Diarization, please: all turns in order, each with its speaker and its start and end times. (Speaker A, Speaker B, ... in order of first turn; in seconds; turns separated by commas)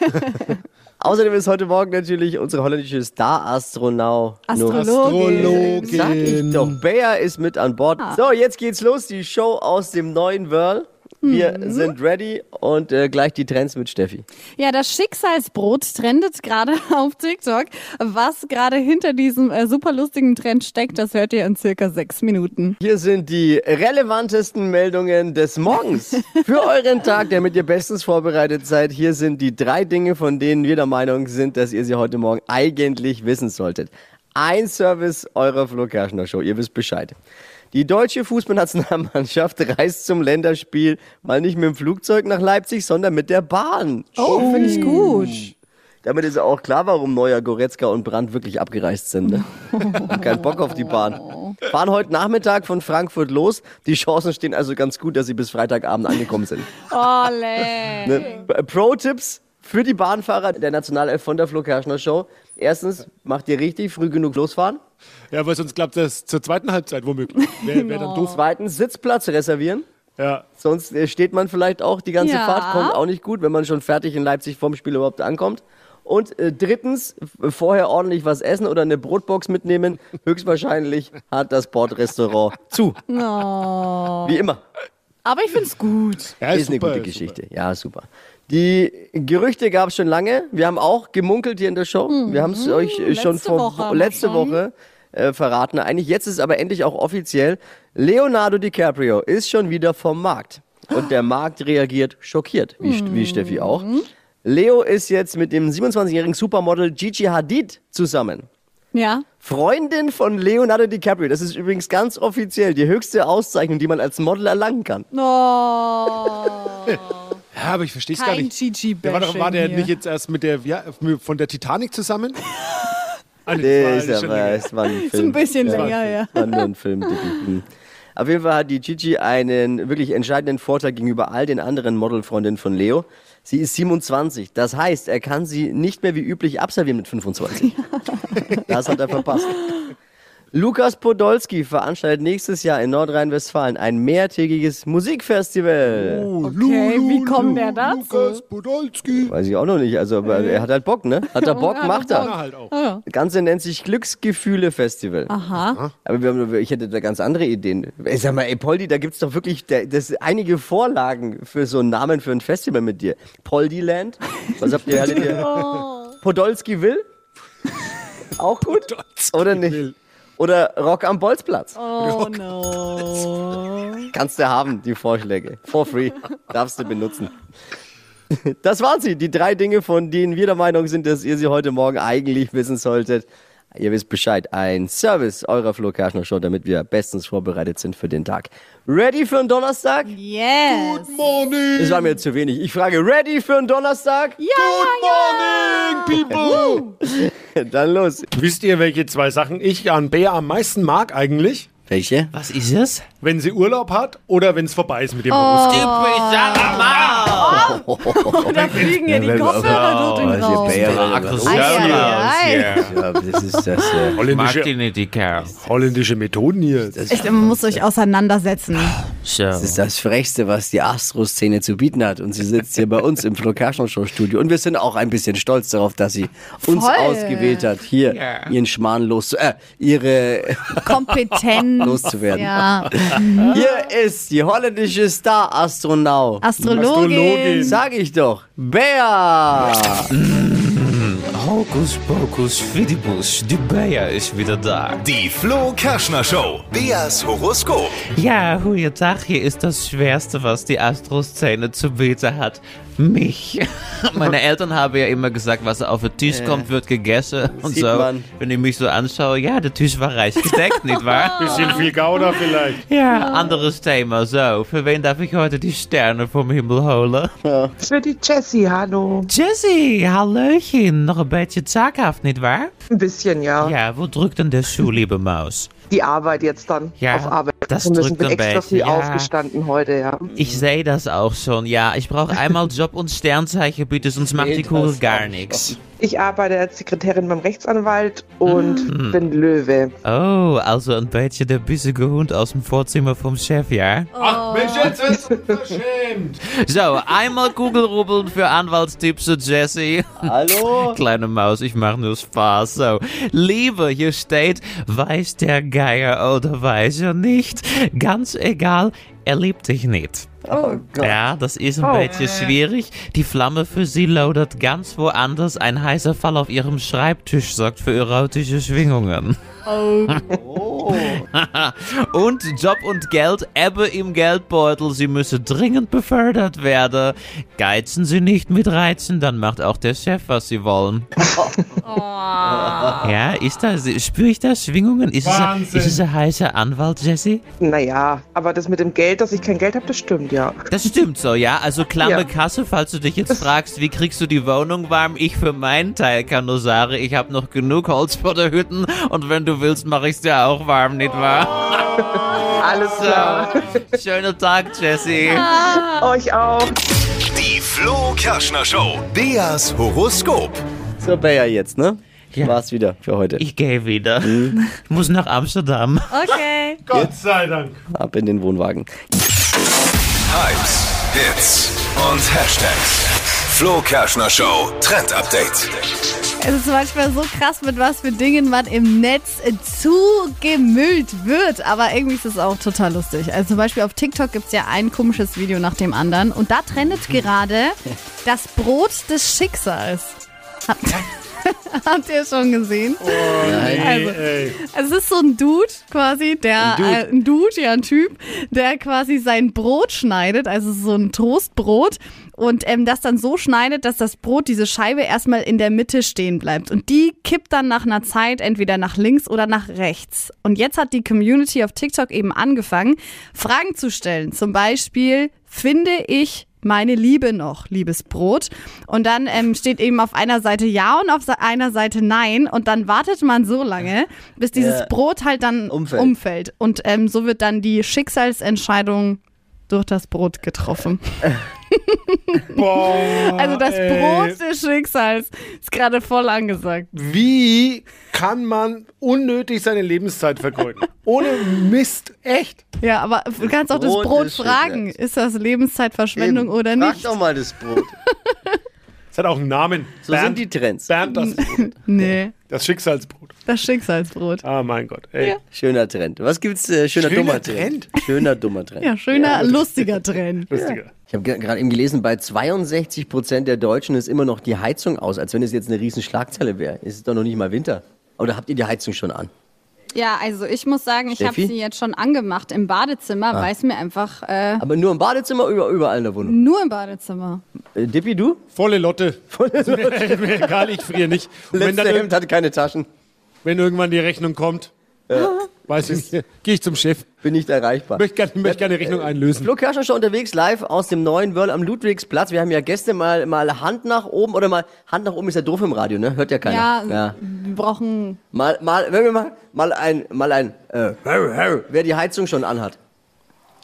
Speaker A: 0.3-0.5, Speaker B: 1.0-14.2, Speaker A: 4.5-6.0, Speaker C: 4.6-6.8, Speaker A: 11.2-11.9, Speaker A: 14.6-22.8, Speaker B: 22.8-37.1, Speaker B: 37.7-45.5, Speaker A: 44.2-45.4, Speaker C: 44.3-45.1, Speaker B: 46.0-56.8, Speaker A: 49.3-50.4, Speaker A: 51.1-51.5, Speaker A: 56.9-58.4, Speaker B: 58.0-64.8, Speaker C: 65.3-68.4, Speaker A: 67.6-68.3, Speaker B: 68.2-69.8, Speaker C: 70.2-70.5, Speaker B: 70.5-83.0, Speaker A: 72.2-73.0, Speaker A: 83.1-84.4, Speaker B: 84.2-84.6, Speaker A: 85.2-86.4, Speaker C: 86.4-87.4, Speaker B: 86.5-103.9, Speaker A: 92.1-94.6, Speaker A: 102.8-104.0, Speaker B: 104.4-108.5, Speaker A: 108.9-109.2, Speaker B: 109.4-115.0, Speaker A: 115.1-117.0, Speaker C: 117.5-118.5, Speaker A: 118.1-119.9, Speaker C: 119.0-122.4, Speaker C: 123.5-124.7, Speaker B: 123.6-127.6, Speaker A: 124.8-127.3, Speaker C: 125.6-126.2, Speaker B: 128.2-137.8, Speaker A: 137.8-138.3, Speaker B: 138.6-139.7, Speaker B: 140.5-146.3, Speaker C: 145.8-149.3, Speaker A: 146.4-148.4, Speaker B: 149.2-152.3, Speaker A: 150.3-150.6, Speaker A: 151.3-153.0, Speaker C: 151.8-152.7, Speaker B: 153.1-155.3, Speaker A: 155.3-155.8, Speaker B: 156.0-165.5, Speaker C: 164.9-165.7, Speaker A: 165.1-166.1, Speaker B: 166.2-167.0, Speaker B: 168.4-171.8, Speaker C: 168.9-169.9, Speaker A: 171.7-174.1, Speaker C: 172.0-173.2, Speaker B: 174.1-177.3, Speaker B: 178.3-190.1, Speaker A: 190.1-191.1, Speaker C: 190.7-192.2, Speaker B: 191.8-194.4, Speaker A: 194.4-196.9, Speaker C: 194.5-196.9, Speaker B: 197.1-198.3, Speaker C: 198.3-201.7, Speaker B: 201.9-202.3, Speaker D: 202.3-203.0, Speaker C: 203.2-206.0, Speaker A: 205.3-212.8, Speaker D: 205.7-207.7, Speaker C: 206.5-207.4, Speaker B: 207.7-212.0, Speaker C: 208.5-209.6, Speaker D: 209.5-212.9, Speaker C: 211.4-212.1, Speaker B: 212.8-214.2, Speaker C: 214.2-214.7, Speaker D: 214.2-215.6, Speaker C: 215.6-217.1, Speaker B: 216.9-217.8, Speaker A: 217.1-218.9, Speaker D: 218.8-219.8, Speaker B: 219.6-230.8, Speaker A: 226.6-227.7, Speaker D: 228.1-228.5, Speaker A: 230.8-233.6, Speaker B: 231.8-236.8, Speaker C: 233.1-233.6, Speaker A: 236.4-237.8, Speaker C: 236.6-237.8, Speaker B: 237.6-240.1, Speaker D: 240.1-245.0, Speaker E: 245.0-248.1, Speaker D: 248.1-261.9, Speaker B: 256.2-256.7, Speaker B: 257.6-258.3, Speaker A: 261.1-261.9, Speaker C: 261.4-262.8, Speaker D: 262.9-267.3, Speaker A: 263.1-263.6, Speaker B: 267.4-267.7, Speaker F: 267.8-269.3, Speaker D: 269.3-272.7, Speaker F: 272.9-273.7, Speaker D: 273.6-275.7, Speaker F: 275.9-280.3, Speaker D: 277.0-279.3, Speaker D: 280.3-285.8, Speaker B: 284.2-285.8, Speaker F: 286.0-289.9, Speaker D: 288.4-289.2, Speaker D: 290.0-294.1, Speaker A: 294.1-294.9, Speaker C: 294.2-296.4, Speaker D: 296.6-310.4, Speaker B: 300.2-301.0, Speaker B: 310.4-311.2, Speaker D: 311.0-319.4, Speaker F: 311.8-312.5, Speaker A: 319.7-320.2, Speaker B: 320.3-321.2, Speaker D: 320.9-331.1, Speaker B: 332.4-333.0, Speaker C: 332.6-333.0, Speaker D: 333.0-337.4, Speaker C: 335.2-336.0, Speaker F: 337.6-340.7, Speaker D: 340.7-352.1, Speaker F: 342.0-342.3, Speaker F: 352.6-353.8, Speaker D: 352.9-355.5, Speaker A: 355.3-356.1, Speaker F: 355.8-356.8, Speaker E: 357.3-360.6, Speaker B: 361.0-363.4, Speaker D: 363.4-366.1, Speaker B: 364.2-364.6, Speaker A: 366.1-366.8, Speaker C: 366.9-367.8, Speaker B: 367.9-368.9, Speaker E: 370.3-375.8, Speaker A: 376.4-390.2, Speaker A: 390.7-436.9, Speaker C: 393.0-394.6, Speaker B: 393.4-394.0, Speaker B: 396.6-397.0, Speaker B: 424.5-424.9, Speaker B: 425.7-426.1, Speaker C: 432.5-434.4, Speaker C: 436.9-442.6, Speaker A: 442.8-447.2, Speaker B: 443.4-444.9, Speaker B: 446.1-447.9, Speaker A: 448.3-448.5, Speaker C: 449.1-451.7, Speaker B: 450.0-450.9, Speaker A: 451.0-452.3, Speaker C: 452.4-453.3, Speaker A: 453.4-454.4, Speaker C: 454.4-455.4, Speaker B: 455.5-459.5, Speaker C: 456.9-458.0, Speaker A: 458.8-460.5, Speaker C: 459.3-459.8, Speaker C: 460.5-460.9, Speaker B: 460.5-469.3, Speaker A: 469.9-474.6, Speaker B: 471.1-471.5, Speaker B: 474.6-476.4, Speaker A: 476.2-477.4, Speaker B: 477.7-478.4, Speaker C: 478.5-482.1, Speaker B: 479.3-480.6, Speaker B: 481.5-482.9, Speaker C: 483.4-484.7, Speaker B: 485.1-485.9, Speaker C: 485.6-487.1, Speaker B: 487.2-497.2, Speaker C: 487.9-489.5, Speaker A: 496.4-498.2, Speaker B: 498.3-502.8